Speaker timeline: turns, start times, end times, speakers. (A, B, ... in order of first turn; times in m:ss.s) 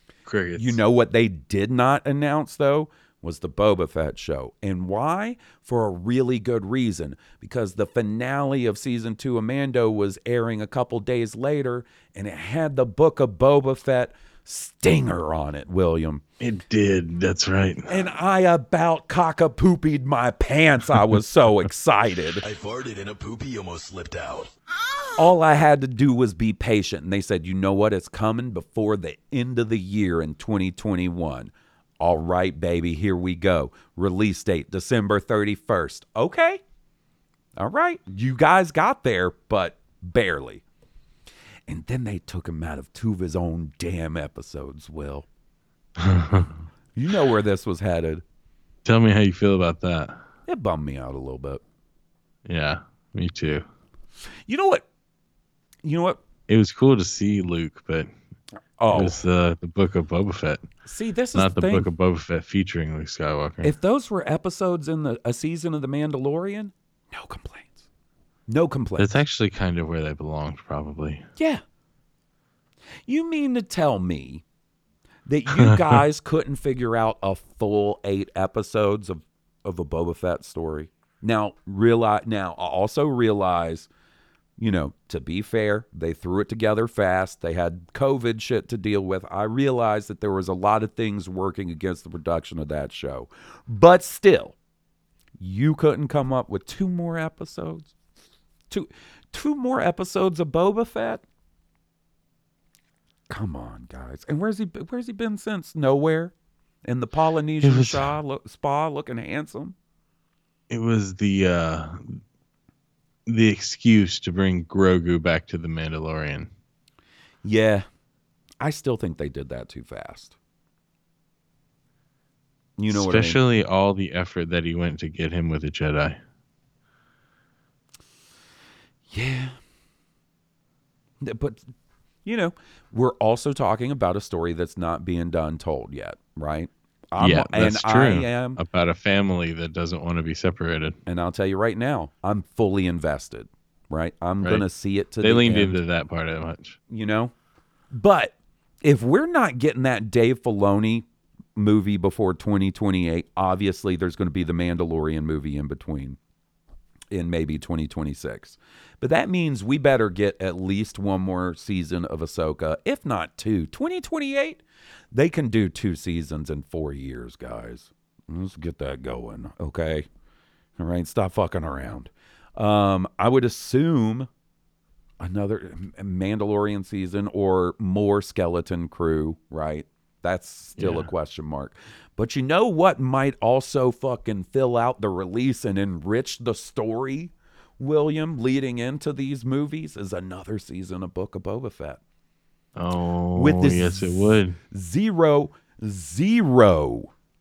0:00.3-0:00.8 A
0:00.6-0:16.2 B
0:16.4-0:17.9 A
0:17.9-0:22.4 B
0:22.4-0:24.5 C
0:25.2-0:36.6 B
0:37.6-0:40.6 B
0:41.7-0:45.3 B
0:46.0-0:46.6 A
0:47.0-0:48.2 B
0:48.8-0:50.2 A
0:50.5-0:51.6 B
0:52.5-0:53.6 A
0:54.5-0:54.9 B
0:55.8-0:56.2 B
0:56.5-0:58.1 A
0:58.8-0:59.2 B
0:58.9-1:00.6 A
1:00.8-1:01.9 B
1:01.4-1:03.7 A
1:03.6-1:07.8 B
1:08.5-1:09.2 B
1:09.0-1:11.2 A
1:11.4-1:11.6 B
1:13.1-1:14.4 B
1:15.3-1:23.9 B
1:24.6-1:34.6 B
1:35.4-1:37.9 B
1:38.7-1:41.2 B
1:43.3-1:46.3 B
1:46.8-1:49.8 B
1:47.6-1:48.2 A
1:50.7-1:52.2 A
1:53.3-1:56.5 A
1:57.4-1:57.9 B
1:58.6-2:00.4 B
2:02.8-2:03.4 B
2:02.9-2:06.2 A
2:09.1-2:09.6 B
2:11.2-2:11.7 B
2:12.2-2:18.6 B
2:17.2-2:21.0 A
2:21.1-2:25.8 B
2:25.2-2:26.8 A
2:26.9-2:27.3 B
2:27.9-2:36.2 B
2:37.1-2:50.1 B
2:50.8-2:54.3 B
2:55.2-3:12.0 B
3:00.8-3:01.1 A
3:12.8-3:14.6 A
3:13.4-3:17.1 B